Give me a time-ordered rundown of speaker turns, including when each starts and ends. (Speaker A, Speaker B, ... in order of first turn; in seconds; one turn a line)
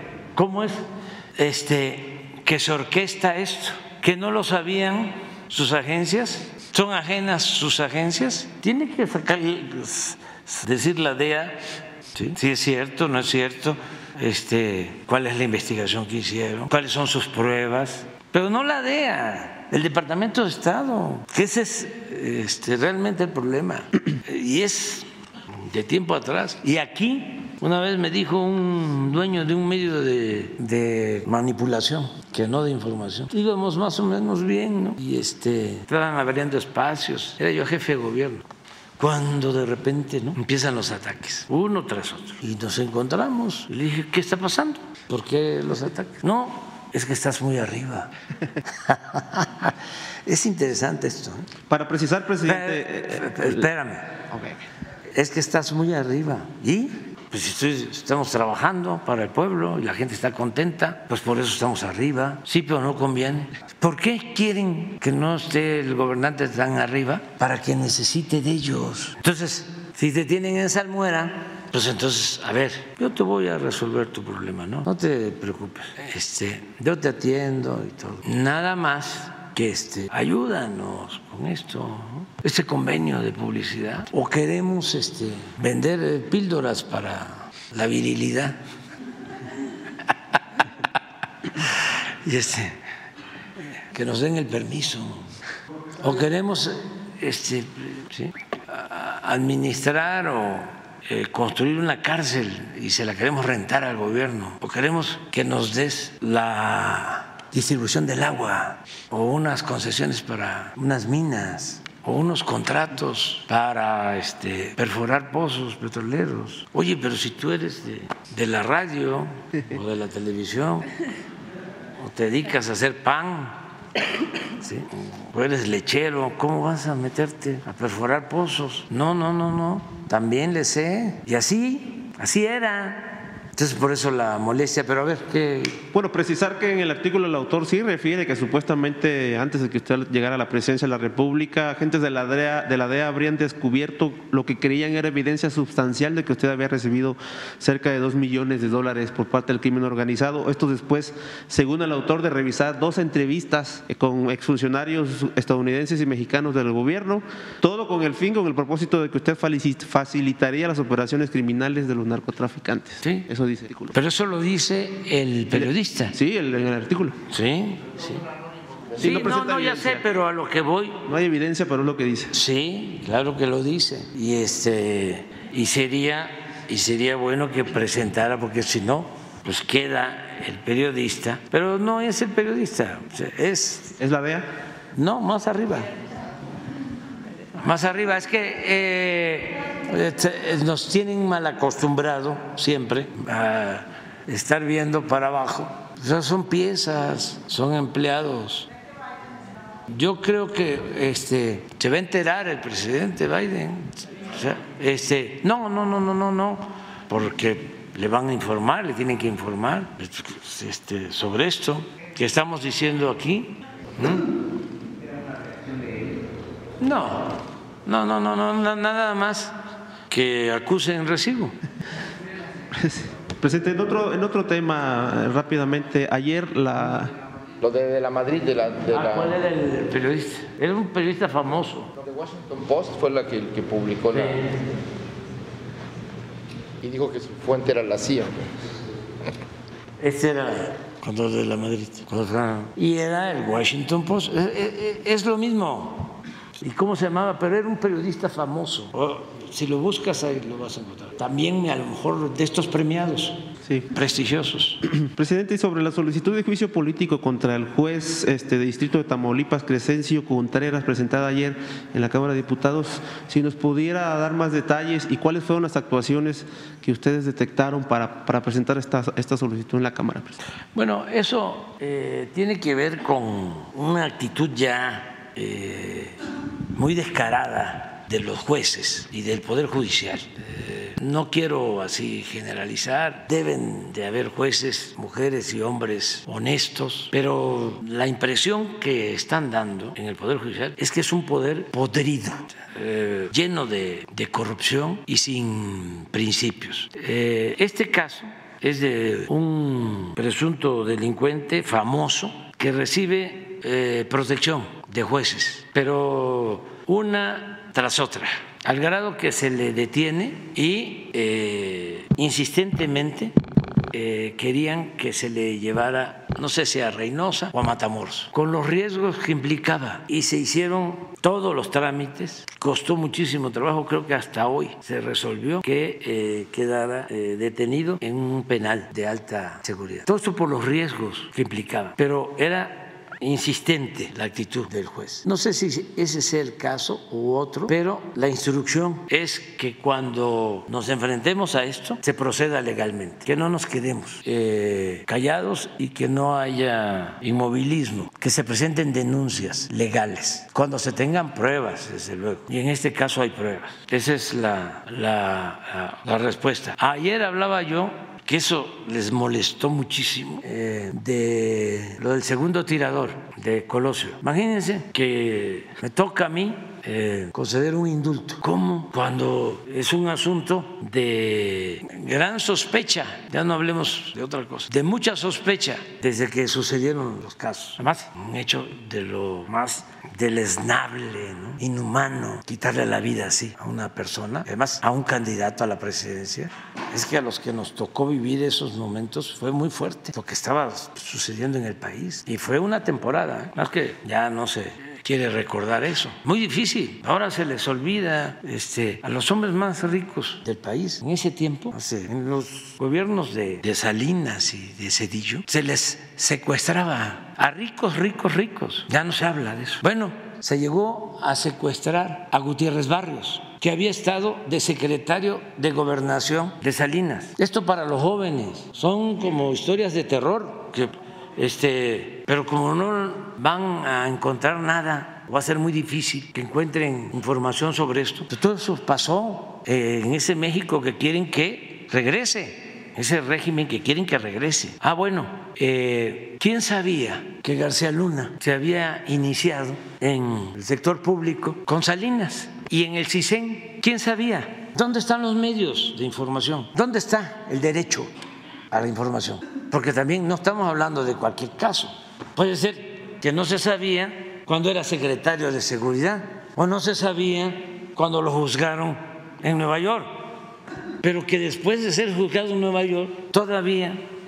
Speaker A: 0.3-11.6
Speaker A: 12.1-38.4
Speaker A: 39.0-48.1
Speaker A: 48.7-51.5
Speaker B: 51.7-53.6
Speaker A: 52.5-54.6
Speaker A: 55.1-88.6
Speaker A: 91.5-92.8
Speaker A: 93.9-95.3
Speaker A: 96.0-120.9
Speaker A: 122.0-123.6
Speaker A: 124.6-135.8
Speaker B: 135.9-163.9
Speaker A: 163.0-163.3
Speaker A: 163.9-166.1
Speaker B: 165.5-167.2
Speaker A: 167.3-168.2
Speaker B: 168.9-170.1
Speaker A: 169.0-171.0
Speaker B: 171.1-172.3
Speaker A: 172.3-184.0
Speaker B: 184.0-184.4
Speaker A: 184.9-185.9
Speaker A: 187.6-198.7
Speaker A: 199.9-214.3
Speaker A: 216.8-217.3
Speaker A: 217.8-219.6
Speaker A: 220.1-221.6
Speaker B: 222.8-227.1
Speaker C: 227.6-229.4
Speaker A: 228.9-231.9
Speaker C: 232.0-234.5
Speaker A: 234.1-234.5
Speaker C: 236.8-238.4
Speaker A: 240.0-253.4
Speaker A: 253.9-254.8
Speaker B: 255.1-270.4
Speaker A: 270.7-276.1
Speaker A: 276.7-313.3
Speaker A: 313.9-448.1
Speaker A: 448.7-460.2
Speaker A: 461.0-464.1